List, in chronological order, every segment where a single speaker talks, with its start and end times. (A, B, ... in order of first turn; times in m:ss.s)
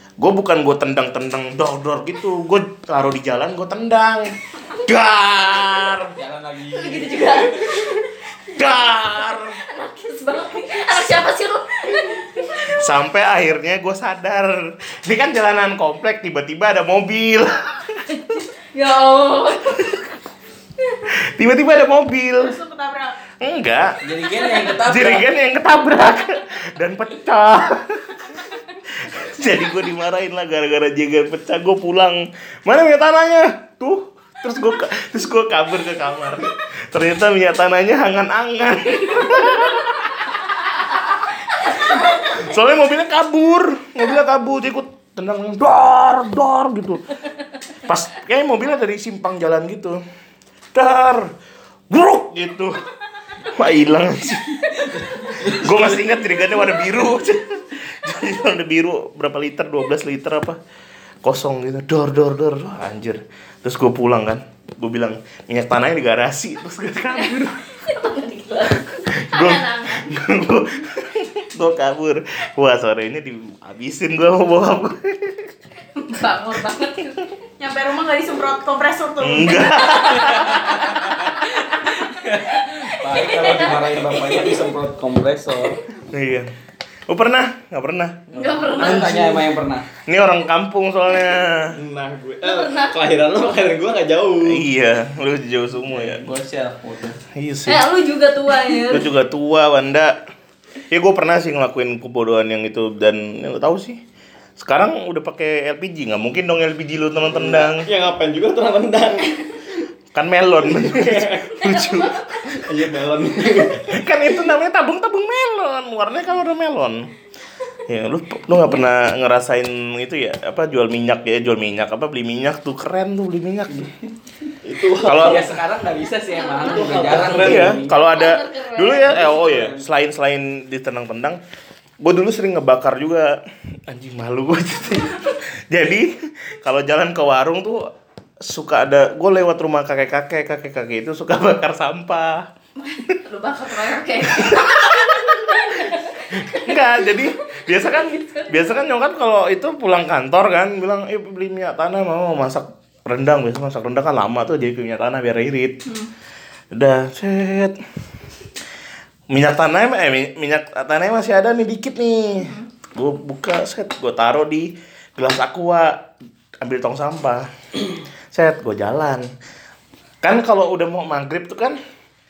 0:00.2-0:06.1 A
0:06.2-0:07.5 B
0:06.7-0:12.8 C
0:07.6-0:08.0 A
0:08.5-0:09.6 A
0:12.6-0:17.8 A
0:18.1-0:20.0 C
0:21.1-0:22.6 A
0:22.4-0:23.2 D
0:23.4-0:24.0 A
0:24.0-0:25.2 B
0:24.8-0:28.2 A
0:29.0-0:40.2 A
0:41.9-0:47.2 A
0:47.8-0:50.0 A
0:50.7-0:51.3 A
0:51.9-0:52.8 A
0:53.4-1:00.6 A
1:01.2-1:07.6 A
1:07.8-1:10.1 C
1:08.8-1:15.5 A
1:16.0-1:17.2 C
1:17.6-1:20.3 D
1:19.2-1:21.0 A
1:21.3-1:21.6 C
1:22.0-1:25.8 B
1:22.8-1:24.5 C
1:23.3-1:23.7 E
1:24.3-1:24.7 E
1:26.1-1:26.5 A
1:27.1-1:29.4 A
1:28.3-1:29.2 C
1:28.3-1:29.8 B
1:30.0-1:31.8 A
1:31.7-1:34.6 E
1:32.4-1:33.0 C
1:34.4-1:36.2 A
1:35.9-1:37.2 B
1:37.3-1:37.9 A
1:37.6-1:39.1 C
1:38.8-1:40.2 A
1:40.9-1:44.0 A
1:44.6-1:47.9 A
1:47.2-1:49.4 E
1:50.1-1:52.6 A
1:50.6-1:51.6 E
1:51.6-1:52.2 C
1:52.6-1:54.0 E
1:53.8-1:57.1 A
1:57.9-2:03.9 A
2:04.6-2:05.6 E
2:05.0-2:05.4 A
2:05.0-2:07.9 B
2:06.3-2:07.0 C
2:06.6-2:07.8 E
2:07.4-2:11.4 A
2:07.8-2:09.4 C
2:09.0-2:09.8 B
2:12.0-2:17.9 A
2:18.4-2:22.5 A
2:22.8-2:27.2 C
2:24.2-2:35.8 A
2:27.8-2:28.6 C
2:36.7-2:37.8 A
2:39.3-2:46.1 A
2:46.6-2:47.5 A
2:48.3-2:49.3 A
2:50.2-2:51.8 A